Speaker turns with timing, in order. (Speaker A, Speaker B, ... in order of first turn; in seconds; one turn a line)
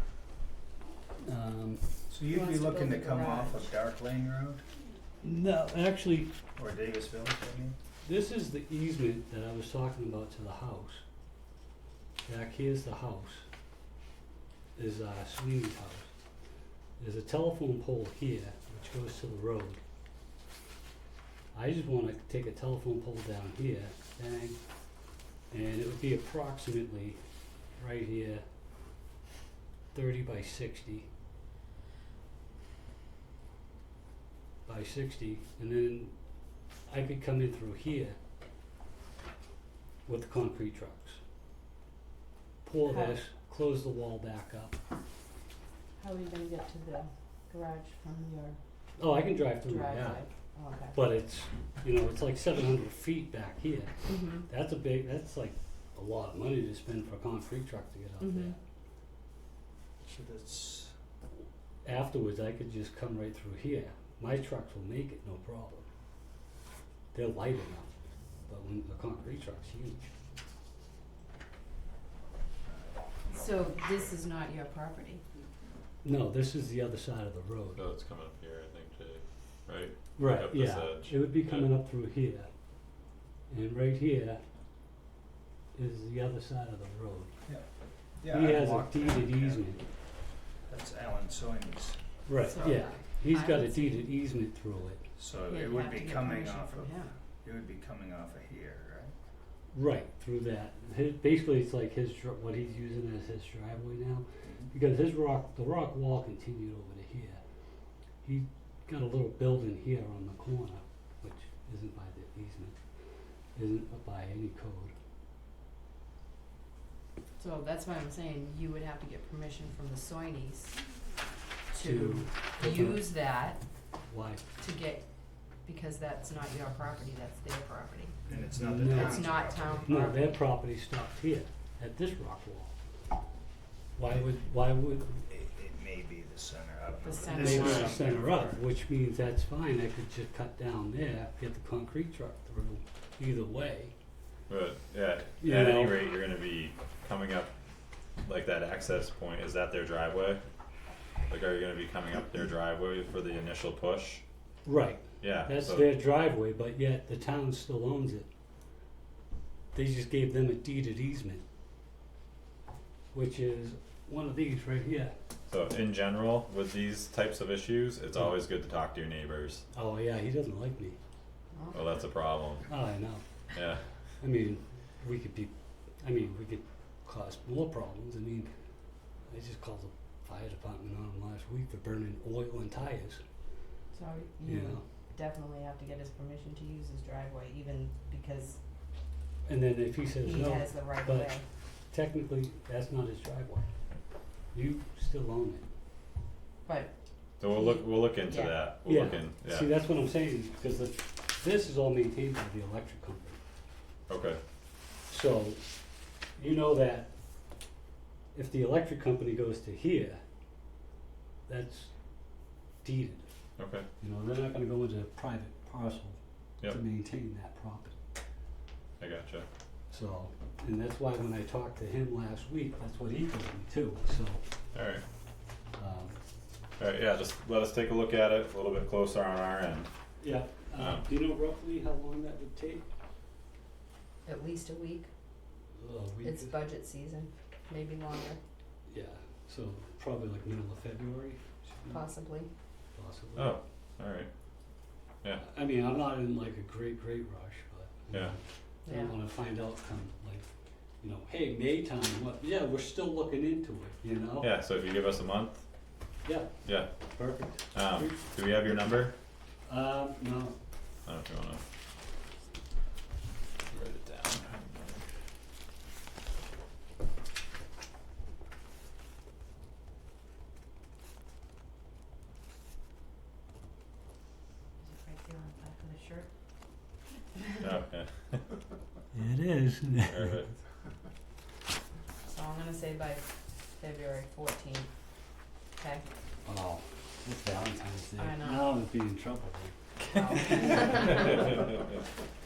Speaker A: 1.2-1.9
Speaker B: 2.1-4.6
Speaker C: 2.2-3.7
Speaker A: 5.2-6.3
Speaker B: 6.5-7.8
Speaker A: 8.0-11.0
Speaker A: 12.2-13.5
Speaker A: 14.8-16.1
Speaker A: 17.0-19.8
Speaker A: 21.5-24.6
Speaker A: 25.5-27.2
Speaker A: 27.8-28.4
Speaker A: 29.9-31.1
Speaker A: 34.7-36.1
Speaker A: 36.9-38.2
Speaker A: 40.0-41.2
Speaker A: 42.7-44.8
Speaker C: 42.8-43.2
Speaker C: 46.0-48.6
Speaker A: 49.0-50.2
Speaker C: 49.5-51.0
Speaker A: 50.9-58.6
Speaker C: 54.0-54.5
Speaker C: 58.2-58.6
Speaker B: 60.0-60.9
Speaker A: 61.8-65.9
Speaker A: 67.1-67.9
Speaker A: 68.5-70.1
Speaker C: 73.3-75.2
Speaker A: 76.0-77.8
Speaker D: 77.8-81.7
Speaker A: 80.2-82.5
Speaker A: 83.5-84.4
Speaker A: 85.8-87.3
Speaker B: 88.2-89.7
Speaker A: 88.3-89.8
Speaker B: 90.7-92.0
Speaker A: 92.3-95.0
Speaker C: 92.4-94.1
Speaker B: 92.5-92.8
Speaker B: 95.2-99.1
Speaker C: 95.5-97.1
Speaker A: 99.7-107.4
Speaker B: 104.4-104.7
Speaker A: 108.2-112.8
Speaker A: 113.6-114.9
Speaker C: 117.4-120.8
Speaker C: 121.7-123.6
Speaker A: 121.8-123.1
Speaker A: 124.1-124.4
Speaker C: 124.6-125.0
Speaker C: 125.6-128.2
Speaker B: 128.3-129.9
Speaker A: 128.5-132.8
Speaker C: 128.8-130.4
Speaker A: 134.0-135.2
Speaker B: 135.3-138.6
Speaker C: 137.0-138.1
Speaker A: 137.3-143.9
Speaker D: 144.5-147.5
Speaker A: 145.4-146.0
Speaker D: 148.2-150.4
Speaker D: 151.3-154.2
Speaker A: 154.7-158.3
Speaker D: 155.2-156.0
Speaker A: 159.7-161.4
Speaker A: 163.1-165.1
Speaker D: 165.5-169.6
Speaker A: 169.7-171.0
Speaker C: 171.5-171.9
Speaker D: 171.7-172.7
Speaker A: 172.7-173.2
Speaker D: 173.5-173.8
Speaker A: 174.2-178.5
Speaker A: 179.3-183.2
Speaker C: 183.9-188.6
Speaker A: 184.4-184.8
Speaker A: 189.4-191.3
Speaker C: 190.2-191.4
Speaker A: 191.9-193.7
Speaker A: 194.5-195.6
Speaker C: 196.7-196.9
Speaker D: 197.4-199.7
Speaker C: 197.5-198.6
Speaker A: 198.8-203.4
Speaker D: 204.1-204.4
Speaker A: 205.1-205.6
Speaker A: 206.4-207.1
Speaker A: 208.3-210.2
Speaker A: 211.5-211.9
Speaker A: 212.8-213.3
Speaker D: 213.6-213.8
Speaker A: 214.0-217.9
Speaker D: 219.0-219.5
Speaker A: 219.9-224.4
Speaker D: 224.7-225.0
Speaker A: 225.8-226.2
Speaker D: 226.8-229.9
Speaker A: 230.2-232.8
Speaker D: 230.7-231.1
Speaker C: 234.2-235.1
Speaker A: 235.8-236.5
Speaker C: 236.2-238.4
Speaker A: 238.9-242.1
Speaker C: 241.9-242.5
Speaker A: 242.9-243.6
Speaker D: 243.3-244.3
Speaker A: 245.4-250.5
Speaker D: 248.1-248.3
Speaker C: 248.8-249.1
Speaker A: 251.0-254.5
Speaker D: 254.4-255.6
Speaker A: 256.2-258.2
Speaker D: 256.6-256.9
Speaker D: 257.7-259.1
Speaker A: 259.7-260.6
Speaker D: 261.1-261.6
Speaker D: 263.7-265.0
Speaker C: 274.8-276.3
Speaker D: 277.6-278.6
Speaker A: 279.1-280.4
Speaker D: 280.1-280.6
Speaker C: 282.2-284.9
Speaker C: 285.8-286.1
Speaker A: 286.4-291.3
Speaker C: 288.1-288.7
Speaker C: 290.0-291.4
Speaker D: 291.3-292.0